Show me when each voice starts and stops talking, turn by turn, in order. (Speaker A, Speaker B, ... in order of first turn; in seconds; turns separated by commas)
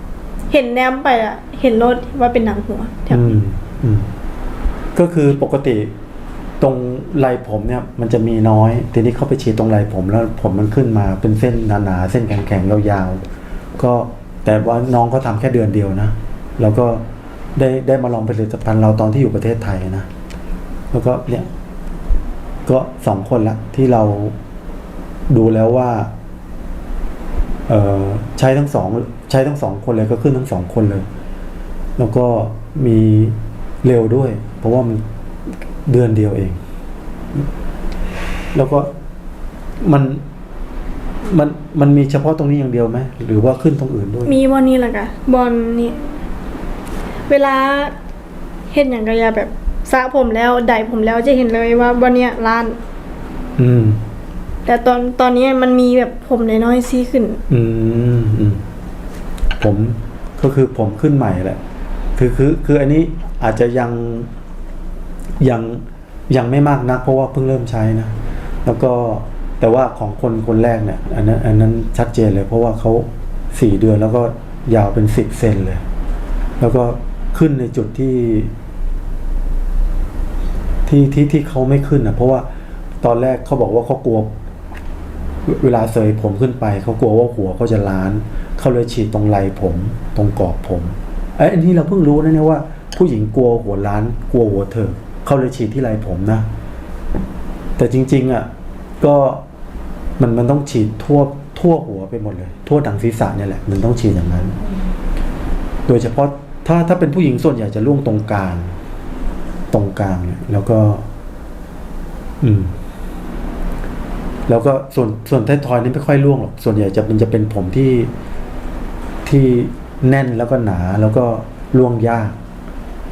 Speaker A: 0.5-3.3, Speaker B: 3.1-4.1, Speaker B: 4.9-5.9, Speaker B: 6.6-13.2, Speaker B: 13.8-17.0, Speaker B: 17.6-20.1, Speaker B: 20.9-21.5, Speaker B: 22.6-24.3, Speaker B: 25.3-26.1, Speaker B: 27.7-31.1, Speaker B: 32.0-35.0, Speaker B: 35.9-36.6, Speaker B: 38.5-38.9, Speaker B: 39.8-40.2, Speaker B: 41.2-44.3, Speaker A: 44.2-46.2, Speaker A: 47.3-47.9, Speaker A: 48.7-52.8, Speaker B: 53.6-54.0, Speaker A: 54.6-57.4, Speaker B: 57.5-58.6, Speaker B: 59.6-61.6, Speaker B: 62.1-64.3, Speaker B: 65.4-75.8, Speaker B: 76.6-78.5, Speaker B: 80.8-82.5, Speaker B: 83.0-84.3, Speaker B: 85.5-96.5, Speaker B: 97.8-98.5, Speaker B: 99.0-99.4, Speaker B: 100.2-104.5, Speaker B: 105.9-108.7, Speaker B: 109.7-111.0, Speaker B: 112.4-112.7, Speaker B: 114.5-118.1, Speaker B: 119.2-122.3